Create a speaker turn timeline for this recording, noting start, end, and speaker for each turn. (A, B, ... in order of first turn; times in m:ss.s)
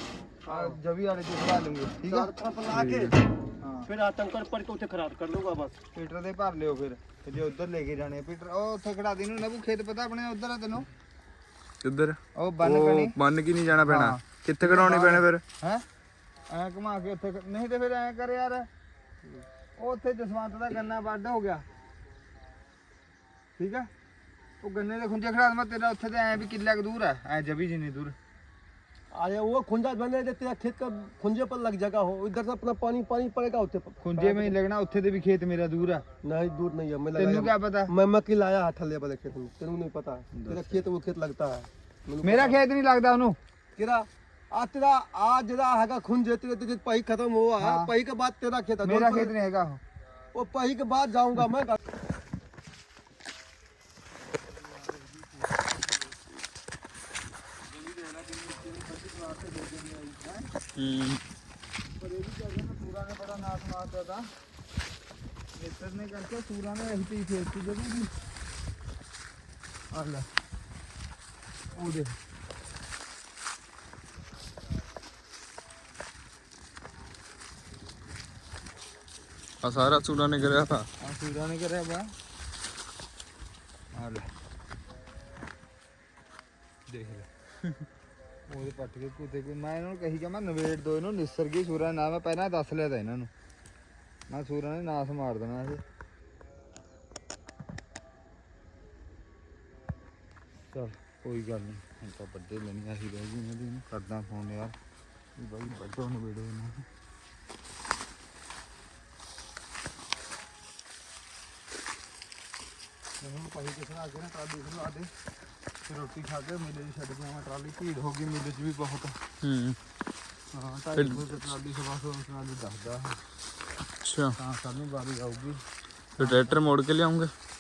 0:00.5-0:00.8 A
0:00.5-0:03.9 B
0:02.0-0:03.1 A
0:03.9-0:05.7 A
0:05.9-0:10.9 B
0:11.8-0:15.4 C
0:12.4-0:13.2 B
0:13.8-0:15.8 B
0:16.5-0:18.7 B
0:19.8-0:21.6 B
0:23.6-0:23.9 B
0:24.6-0:28.1 B
0:29.1-0:34.6 A
0:34.0-0:36.0 B
0:36.2-0:42.6 A
0:37.1-0:37.9 B
0:40.3-0:40.9 B
0:42.2-0:43.4 B
0:43.8-0:49.3 A
0:47.6-0:47.9 B
0:48.8-0:49.8 B
0:50.3-0:51.8 A
0:57.7-1:00.5 B
1:00.8-1:01.2 C
1:02.0-1:04.3 B
1:05.6-1:08.1 B
1:09.9-1:10.3 B
1:11.8-1:12.2 B
1:19.6-1:20.9 C
1:21.0-1:22.1 B
1:23.9-1:24.2 B
1:26.9-1:27.2 B
1:28.5-1:33.3 B
1:34.3-1:35.8 B
1:40.7-1:44.7 B
1:45.4-1:46.8 B
1:53.2-1:55.1 B
1:55.8-1:59.2 B
1:59.4-1:59.8 C
2:00.5-2:03.2 B
2:01.0-2:01.2 C
2:04.0-2:04.4 C
2:04.4-2:05.6 B
2:06.2-2:06.6 B
2:06.2-2:07.3 C